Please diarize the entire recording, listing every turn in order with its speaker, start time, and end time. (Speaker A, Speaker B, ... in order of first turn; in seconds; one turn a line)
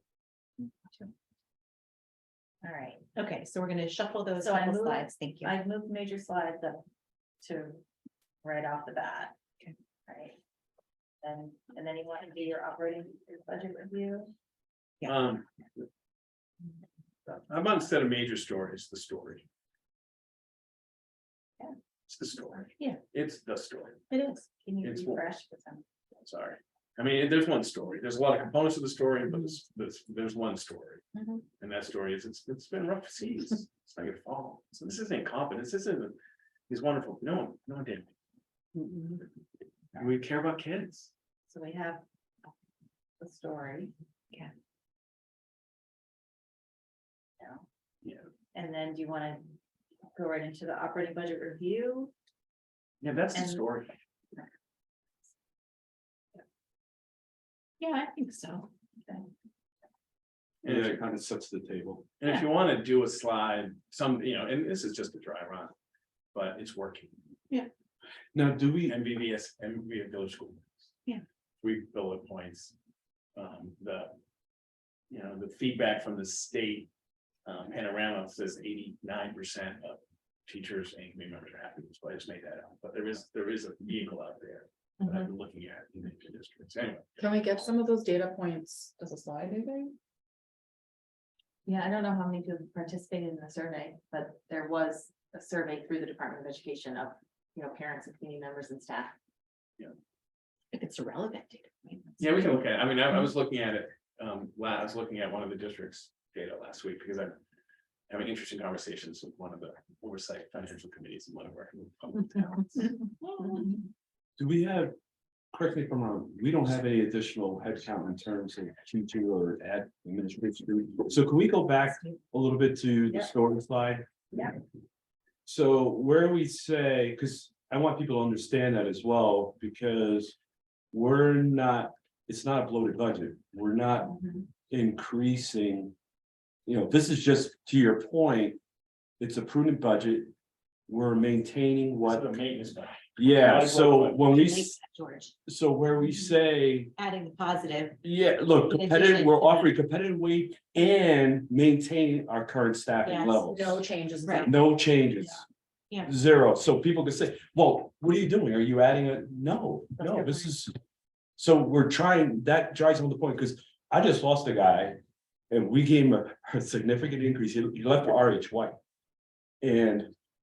Speaker A: 2.6-3.1
Speaker B: 3.1-5.5
Speaker A: 4.4-6.8
Speaker A: 7.4-7.8
Speaker A: 8.4-9.4
Speaker A: 10.1-10.4
Speaker A: 11.2-14.3
Speaker C: 15.0-15.5
Speaker C: 17.3-19.4
Speaker C: 22.1-24.0
Speaker B: 24.1-24.5
Speaker A: 24.6-25.8
Speaker C: 24.8-25.2
Speaker C: 26.2-31.0
Speaker C: 31.6-36.2
Speaker C: 36.7-38.1
Speaker D: 38.8-39.2
Speaker C: 40.0-41.1
Speaker A: 41.5-42.0
Speaker A: 43.2-44.5
Speaker A: 47.4-47.6
Speaker A: 48.5-49.5
Speaker A: 50.1-52.1
Speaker C: 53.0-53.9
Speaker A: 53.3-53.6
Speaker B: 57.8-58.7
Speaker A: 59.0-59.3
Speaker C: 60.6-61.0
Speaker E: 60.6-62.1
Speaker C: 62.2-65.7
Speaker C: 66.3-67.1
Speaker E: 68.3-69.0
Speaker C: 68.9-70.8
Speaker C: 71.6-72.7
Speaker C: 73.4-74.1
Speaker C: 75.1-76.9
Speaker C: 77.5-87.2
Speaker A: 85.0-85.3
Speaker D: 87.2-89.9
Speaker A: 91.7-99.2
Speaker B: 100.7-102.5
Speaker C: 102.2-107.4
Speaker C: 108.1-113.0
Speaker B: 113.4-113.8
Speaker E: 114.4-114.9
Speaker E: 115.5-124.3
Speaker E: 125.5-130.4
Speaker E: 130.9-134.2
Speaker A: 134.1-134.4
Speaker E: 134.7-135.9
Speaker E: 136.7-138.6
Speaker E: 139.2-140.3
Speaker E: 140.9-142.3
Speaker C: 142.0-144.2
Speaker E: 143.2-144.8
Speaker B: 144.3-145.3
Speaker E: 145.5-146.9
Speaker B: 147.0-148.0
Speaker E: 148.0-153.8
Speaker B: 148.6-149.7
Speaker B: 153.0-153.5
Speaker D: 153.5-154.7
Speaker B: 154.2-154.5
Speaker E: 154.4-155.5
Speaker E: 156.1-160.7
Speaker E: 161.4-165.0
Speaker E: 165.5-168.8
Speaker E: 169.6-170.1